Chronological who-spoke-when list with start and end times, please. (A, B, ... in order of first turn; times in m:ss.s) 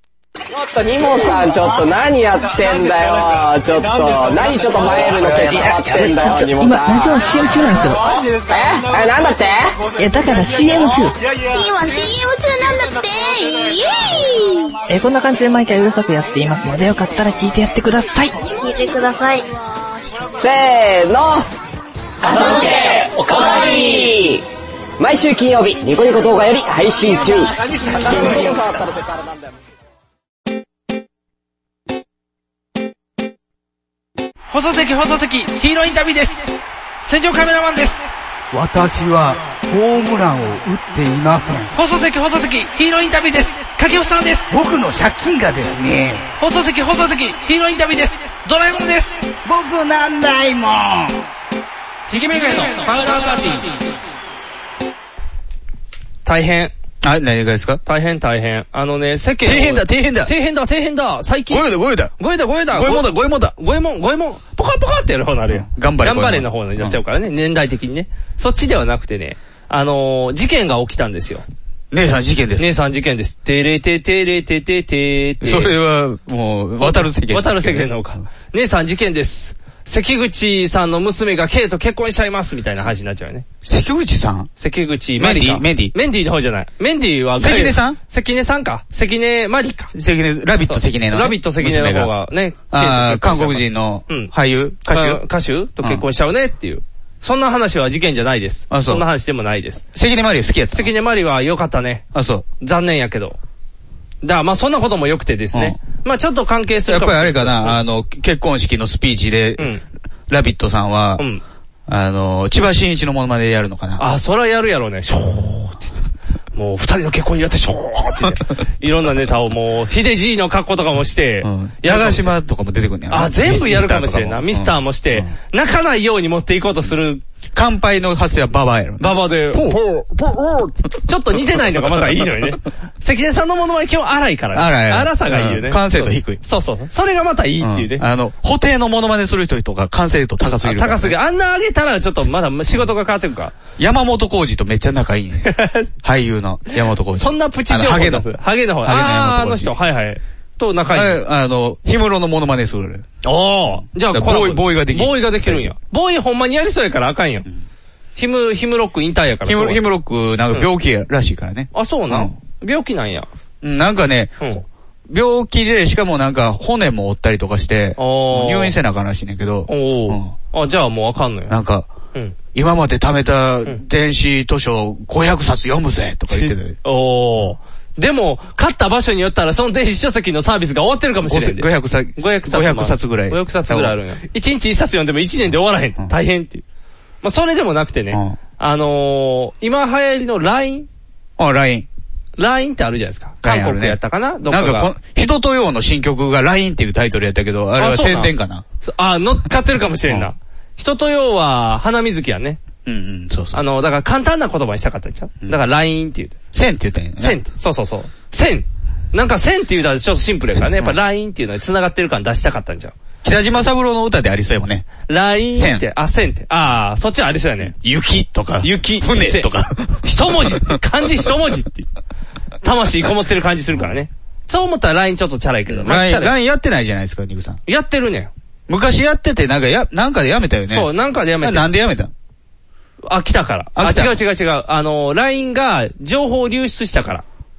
0:00.5-0:07.1 A
0:06.0-0:08.0 B
0:08.5-0:09.8 A
0:10.0-0:11.1 B
0:11.5-0:14.7 C
0:14.9-0:18.3 B
0:18.4-0:19.5 C
0:20.3-0:21.4 A
0:22.2-0:24.4 A
0:25.0-0:29.3 A
0:34.5-0:38.1 D
0:38.5-0:41.7 E
0:41.7-0:44.5 D
0:44.5-0:46.2 E
0:46.4-0:49.3 D
0:49.4-0:51.1 E
0:52.1-0:53.8 D
0:56.2-0:56.7 F
0:57.0-0:57.8 G
0:57.8-1:01.6 F
0:59.4-1:00.3 G
1:01.5-1:02.1 G
1:02.2-1:11.4 F
1:02.7-1:03.5 G
1:05.5-1:07.0 G
1:11.9-1:12.7 G
1:12.6-1:15.7 F
1:15.4-1:18.1 G
1:16.8-1:23.4 F
1:23.6-1:24.5 G
1:24.6-1:29.9 F
1:25.2-1:25.9 G
1:27.4-1:28.0 G
1:29.9-1:32.1 G
1:30.6-1:34.3 F
1:32.7-1:35.2 G
1:34.9-1:39.8 F
1:38.7-1:39.0 G
1:39.9-1:40.9 G
1:40.7-1:42.0 F
1:42.1-1:42.4 G
1:42.6-1:43.4 F
1:44.2-1:47.8 F
1:46.9-1:49.7 G
1:49.6-1:49.8 F
1:50.3-1:51.2 G
1:51.9-1:54.0 G
1:54.0-1:55.9 F
1:56.5-2:02.4 F
2:01.4-2:05.3 G
2:03.1-2:07.2 F
2:07.5-2:10.7 G
2:09.0-2:09.8 F
2:11.0-2:18.0 F
2:14.5-2:16.4 G
2:17.6-2:21.1 G
2:20.6-2:23.5 F
2:23.8-2:25.5 G
2:25.4-2:25.9 F
2:26.0-2:28.3 G
2:27.2-2:31.2 F
2:28.8-2:29.7 G
2:30.9-2:33.1 G
2:33.2-2:37.5 F
2:34.0-2:35.7 G
2:38.2-2:39.8 F
2:39.4-2:42.3 G
2:41.7-2:43.3 F
2:43.6-2:44.4 G
2:45.1-2:50.3 G
2:48.0-2:48.8 F
2:49.7-2:51.6 F
2:51.5-2:51.9 G
2:52.5-2:56.8 G
2:56.3-3:06.6 F
3:01.3-3:03.9 G
3:07.2-3:10.9 F
3:08.1-3:08.4 G
3:11.4-3:11.9 G
3:12.4-3:14.9 F
3:13.4-3:18.6 G
3:17.8-3:22.6 F
3:22.8-3:23.6 G
3:23.5-3:26.3 F
3:26.5-3:27.4 G
3:27.2-3:32.9 F
3:33.2-3:35.0 G
3:35.1-3:37.7 F
3:35.5-3:35.8 G
3:37.6-3:40.8 G
3:38.6-3:39.5 F
3:40.0-3:41.9 F
3:42.6-3:46.3 F
3:45.7-3:47.6 G
3:47.7-3:48.3 F
3:48.7-3:50.9 G
3:50.7-3:51.7 F
3:51.4-3:52.1 G
3:53.1-3:57.2 F
3:53.7-3:54.2 G